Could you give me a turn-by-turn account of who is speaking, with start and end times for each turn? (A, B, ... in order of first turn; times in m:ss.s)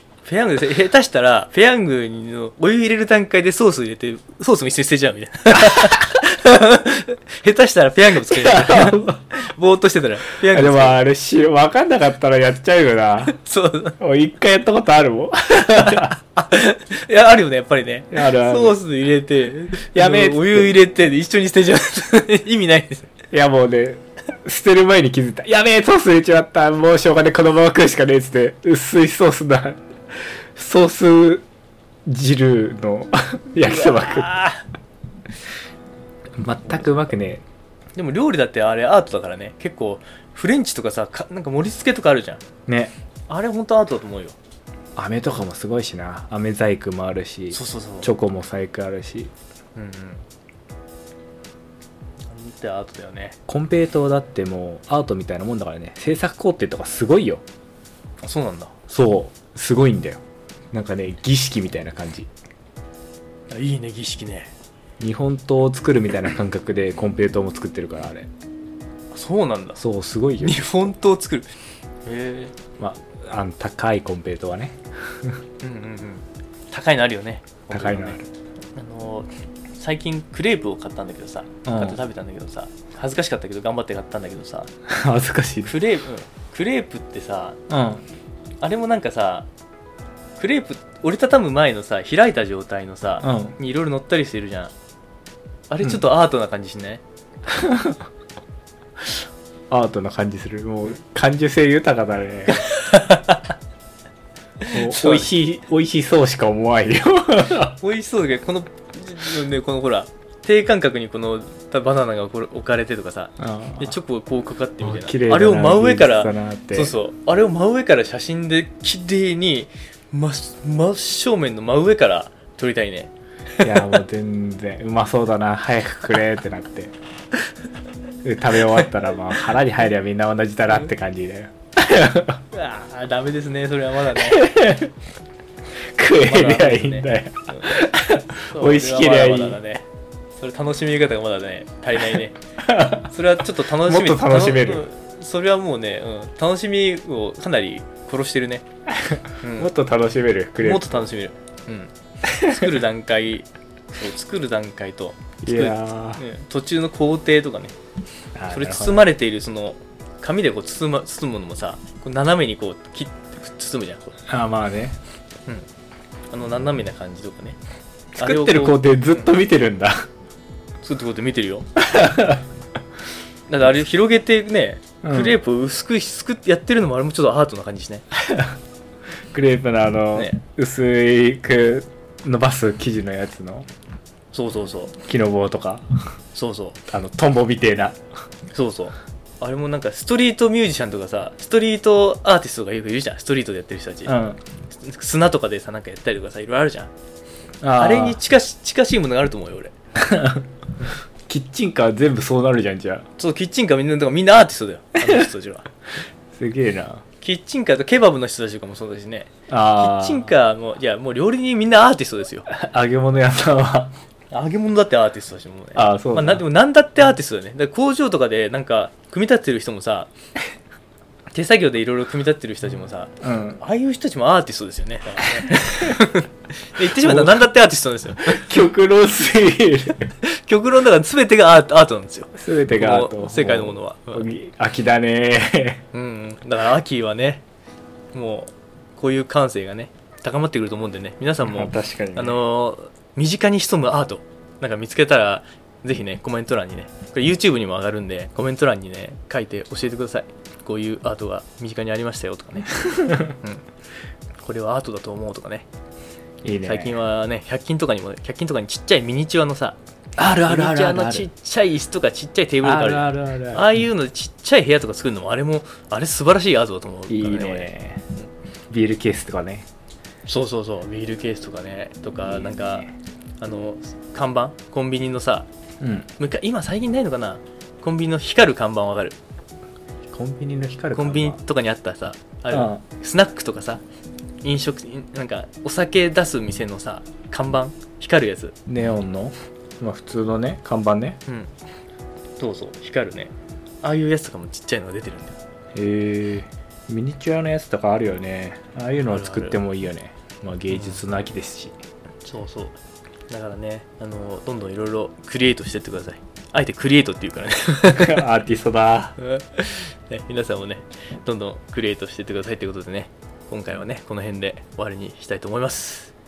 0:00.2-0:11.0 A
0:05.5-0:06.2 B
0:08.3-0:09.2 B
0:10.4-0:13.4 B
0:13.3-0:14.0 A
0:14.0-0:16.2 B
0:15.6-0:23.1 A
0:18.1-0:18.8 B
0:19.9-0:20.8 B
0:23.3-0:31.4 B
0:32.0-0:34.3 B
0:33.6-0:34.6 A
0:36.4-0:37.4 B
0:38.0-0:42.4 A
0:42.7-0:42.9 B
0:43.3-0:44.4 A
0:45.0-0:49.3 B
0:47.5-0:48.1 A
0:49.8-0:50.2 A
0:52.3-0:53.4 A
0:53.5-0:57.4 B
0:58.2-0:58.7 A
0:58.9-1:00.2 B
1:00.7-1:02.3 B
1:03.5-1:04.5 A
1:05.0-1:08.3 B
1:09.1-1:09.8 A
1:09.8-1:10.9 B
1:10.4-1:11.5 A
1:12.0-1:12.5 A
1:12.8-1:15.4 B
1:15.6-1:18.2 A
1:17.7-1:18.2 B
1:18.7-1:24.7 A
1:21.6-1:22.0 B
1:24.9-1:25.7 B
1:25.6-1:27.6 A
1:27.7-1:28.0 B
1:28.6-1:29.5 A
1:30.4-1:34.7 A
1:33.2-1:33.6 B
1:35.7-1:37.0 A
1:37.5-1:38.0 B
1:39.7-1:42.7 B
1:42.5-1:43.5 A
1:44.6-1:45.3 A
1:44.7-1:47.8 B
1:47.8-2:03.6 A
1:53.4-1:54.0 B
1:54.8-1:56.9 B
2:03.6-2:06.9 B
2:08.2-2:12.4 B
2:12.5-2:14.5 A
2:14.2-2:14.9 B
2:15.9-2:19.6 B
2:16.2-2:17.8 A
2:18.4-2:19.9 A
2:20.4-2:22.4 A
2:22.6-2:23.1 B
2:23.1-2:28.6 A
2:23.8-2:24.8 B
2:28.9-2:31.0 B
2:29.4-2:29.7 A
2:30.6-2:37.7 A
2:32.2-2:32.7 B
2:35.4-2:36.2 B
2:38.3-2:39.1 B
2:38.5-2:44.2 A
2:44.3-2:45.0 B
2:46.3-2:47.6 A
2:48.2-2:50.0 B
2:48.2-2:49.3 A
2:50.8-2:51.7 A
2:51.8-2:52.4 B
2:53.5-2:58.0 A
2:55.0-2:55.4 B
2:58.1-2:58.6 B
2:59.3-3:03.7 B
3:00.1-3:00.4 A
3:04.3-3:05.0 A
3:05.0-3:05.8 B
3:06.3-3:06.8 A
3:06.9-3:08.0 B
3:08.5-3:14.2 A
3:14.0-3:14.4 B
3:14.7-3:16.9 A
3:17.6-3:18.2 B
3:17.8-3:19.7 A
3:20.0-3:20.5 B
3:21.3-3:23.0 B
3:23.2-3:25.7 A
3:26.3-3:27.0 B
3:27.2-3:32.5 A
3:29.5-3:30.3 B
3:32.5-3:33.9 B
3:34.3-3:40.1 A
3:35.7-3:36.4 B
3:41.3-3:48.5 A
3:43.2-3:43.6 B
3:47.0-3:47.4 B
3:48.2-3:50.0 B
3:50.2-3:54.2 A
3:52.3-3:55.8 B
3:55.9-3:57.4 A
3:58.1-4:13.6 A
4:01.4-4:02.4 B
4:12.8-4:13.3 B
4:14.4-4:15.6 A
4:16.4-4:17.0 B
4:16.6-4:19.8 A
4:20.2-4:21.3 B
4:20.4-4:28.3 A
4:22.6-4:23.8 B
4:27.1-4:28.1 B
4:28.7-4:29.7 B
4:30.2-4:32.9 A
4:32.2-4:32.9 B
4:33.4-4:35.5 A
4:35.8-4:36.1 B
4:36.2-4:39.2 A
4:40.1-4:41.4 B
4:40.9-4:43.8 A
4:42.5-4:42.8 B
4:44.4-4:48.5 A
4:48.6-4:51.2 B
4:52.4-4:53.3 A
4:53.8-4:55.3 A
4:55.7-5:01.7 B
4:59.1-4:59.6 A
5:00.7-5:01.0 A
5:02.2-5:02.8 A
5:03.3-5:08.2 A
5:07.9-5:09.2 B
5:09.2-5:16.1 A